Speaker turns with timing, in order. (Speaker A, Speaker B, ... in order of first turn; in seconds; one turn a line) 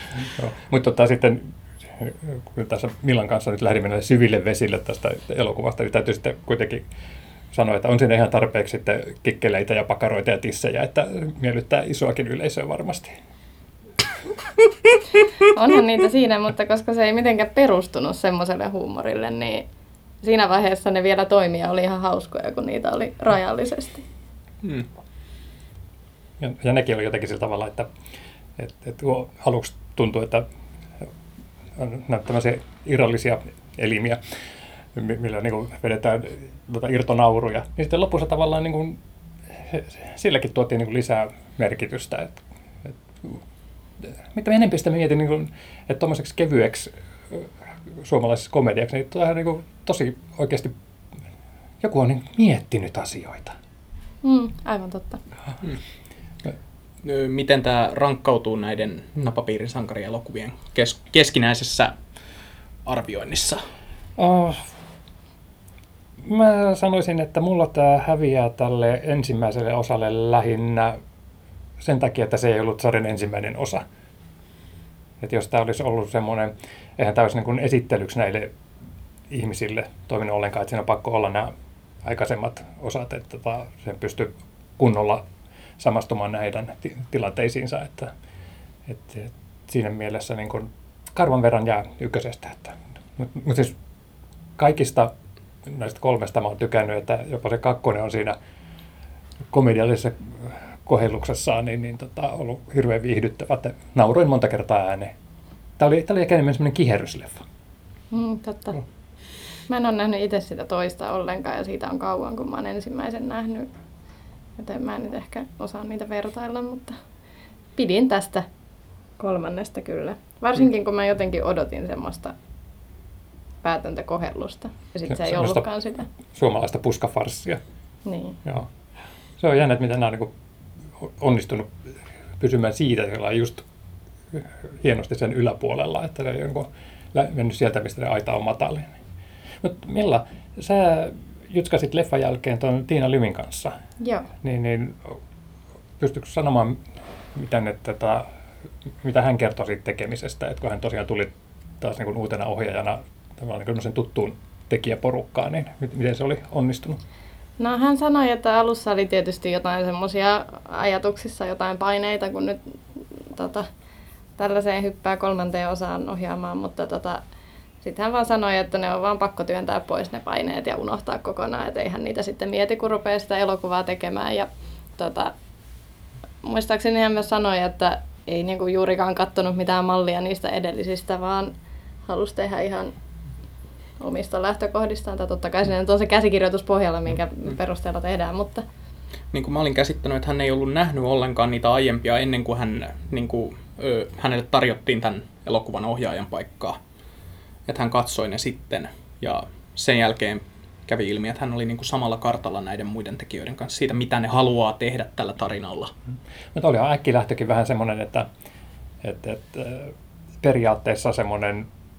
Speaker A: 0.3-6.8
Speaker A: 7.5-13.1
Speaker B: 15.5-19.6
Speaker B: 20.2-24.0
Speaker C: 24.6-24.9
Speaker A: 26.4-27.9
Speaker A: 28.6-30.4
Speaker A: 31.8-34.2
Speaker A: 34.9-39.0
Speaker A: 39.6-43.4
Speaker A: 44.0-50.7
Speaker A: 51.8-53.5
Speaker B: 54.2-55.2
Speaker C: 57.0-61.9
Speaker C: 62.8-63.6
Speaker A: 64.2-64.7
Speaker A: 66.2-71.0
Speaker A: 71.8-73.8
Speaker A: 75.2-78.5
Speaker A: 79.3-81.5
Speaker A: 82.0-85.2
Speaker A: 85.8-88.1
Speaker A: 88.8-93.7
Speaker A: 94.6-95.1
Speaker A: 95.7-98.3
Speaker A: 99.5-105.1
Speaker A: 105.8-107.4
Speaker B: 108.1-108.8
Speaker B: 109.7-113.7
Speaker B: 114.6-116.9
Speaker B: 117.8-118.4
Speaker B: 119.2-122.3
Speaker B: 123.6-126.1
Speaker A: 125.0-125.7
Speaker A: 126.3-127.6
Speaker B: 128.0-128.4
Speaker A: 129.4-130.3
Speaker A: 131.0-131.7
Speaker A: 132.4-133.6
Speaker A: 134.3-138.9
Speaker A: 139.6-143.7
Speaker B: 144.0-144.3
Speaker A: 144.4-145.2
Speaker A: 146.0-146.8
Speaker A: 147.3-148.2
Speaker A: 149.0-157.0
Speaker B: 157.6-162.6
Speaker B: 163.2-163.6
Speaker B: 164.4-167.2
Speaker B: 167.8-175.3
Speaker B: 176.4-181.5
Speaker B: 182.1-182.9
Speaker B: 184.0-188.6
Speaker C: 189.3-196.8
Speaker C: 197.7-205.9
Speaker A: 206.5-208.2
Speaker A: 209.0-211.7